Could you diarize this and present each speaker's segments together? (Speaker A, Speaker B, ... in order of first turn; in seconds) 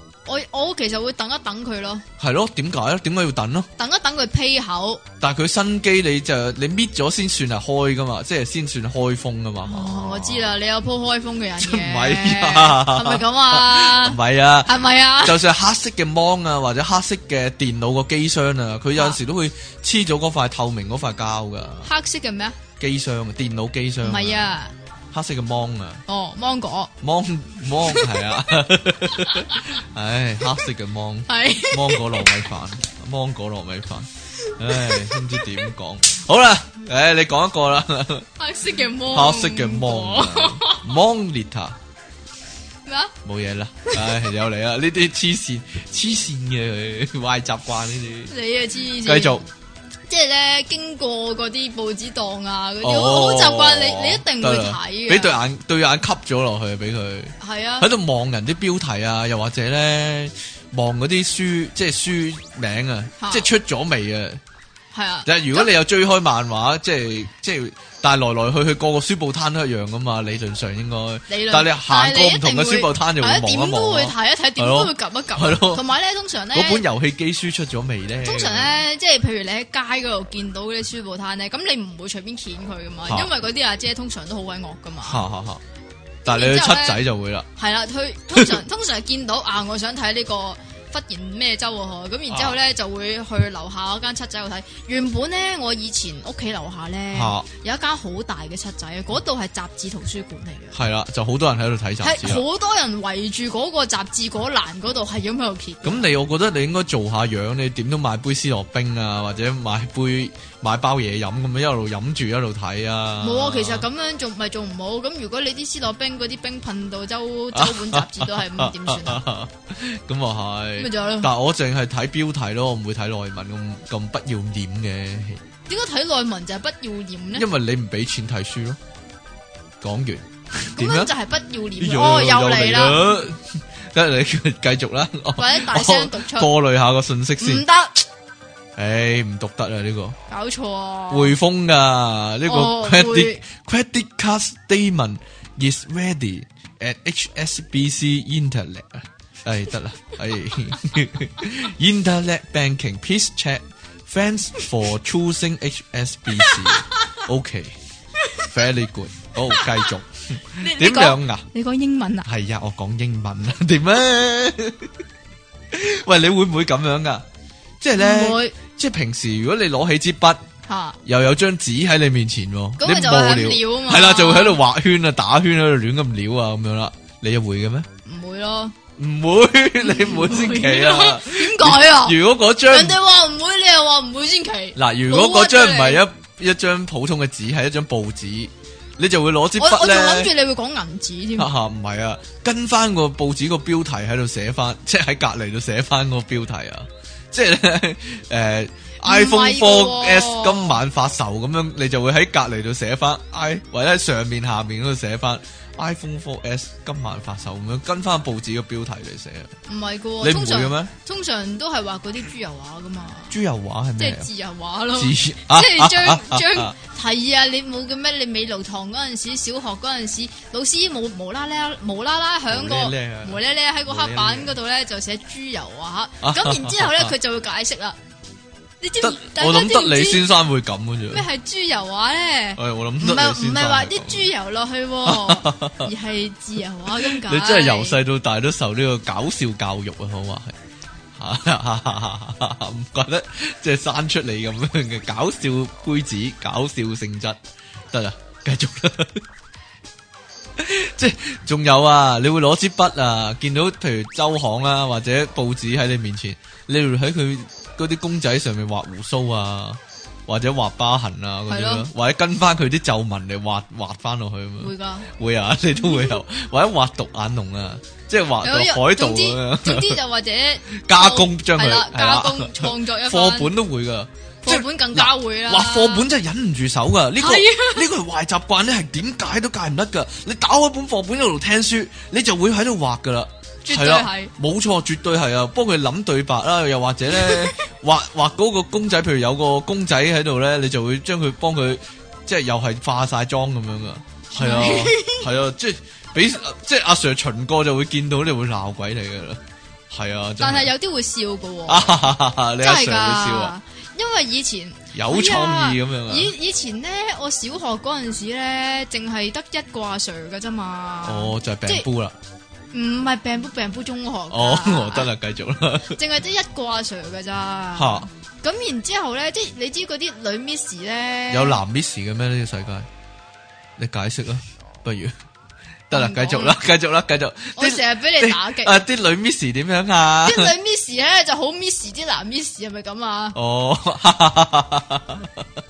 Speaker A: 0.3-2.0, 3.8-5.0, 9.7-15.4, 18.9-19.2, 21.8-22.6, 24.0-24.7, 26.1-26.9, 27.8-28.2, 29.1-29.7, 31.3-32.5, 34.4-35.7, 38.4-40.9, 42.9-43.1, 43.9-44.4, 48.3-49.4, 50.1-55.4, 57.4-57.9, 63.2-63.5, 64.9-65.7, 71.3-76.8, 78.2-85.2, 86.3-87.0, 87.6-100.8, 102.0-106.1, 113.2-119.2, 120.8-121.3, 125.7-127.5, 130.8-133.1, 135.4-136.5, 137.4-138.1, 140.3-141.4, 142.4-143.4, 156.3-157.2, 158.2-158.6, 159.5-159.9, 160.6-162.3, 168.0-168.6, 170.7-171.0, 172.8-174.6, 178.1-178.8, 179.8-186.0, 189.6-191.5, 199.0-200.8, 209.7-213.4, 214.0-228.0, 228.8-230.3, 231.1-238.0, 261.5-261.9, 264.6-265.1, 268.4-273.5, 274.4-276.1, 277.2-277.9, 283.6-284.3, 287.1-287.5, 294.4-295.3, 300.4-311.9, 312.7-315.1, 315.9-321.6, 325.9-326.6, 327.6-328.8, 330.2-333.4
Speaker B: 2.2-3.7, 5.2-10.6, 11.6-21.9, 22.8-24.6, 25.1-26.0, 27.0-38.3, 39.1-41.8, 43.2-48.3, 49.0-49.5, 52.8-64.4, 65.3-75.8, 76.5-78.8, 85.0-85.6, 86.2-87.5, 88.3-88.6, 92.3-92.6, 97.1-97.5, 100.7-102.4, 105.8-113.9, 117.5-125.4, 127.3-128.8, 129.8-131.1, 131.8-137.7, 138.8-140.2, 141.1-157.8, 158.4-161.5, 162.2-164.9, 165.7-167.2, 167.8-170.4, 171.1-177.9, 179.0-183.0, 184.8-190.3, 191.4-209.5, 210.2-210.9, 213.3-214.3, 214.9-216.7, 222.5-224.6, 226.2-227.1, 229.0-231.3, 232.6-234.3, 235.1-235.9, 236.9-240.6, 241.2-247.4, 247.9-249.2, 250.6-270.0, 270.9-300.7, 301.7-303.5, 304.9-306.3, 311.1-312.2, 314.3-316.0, 317.8-318.1, 321.3-322.9, 323.8-325.1, 325.9-330.5, 333.3-335.5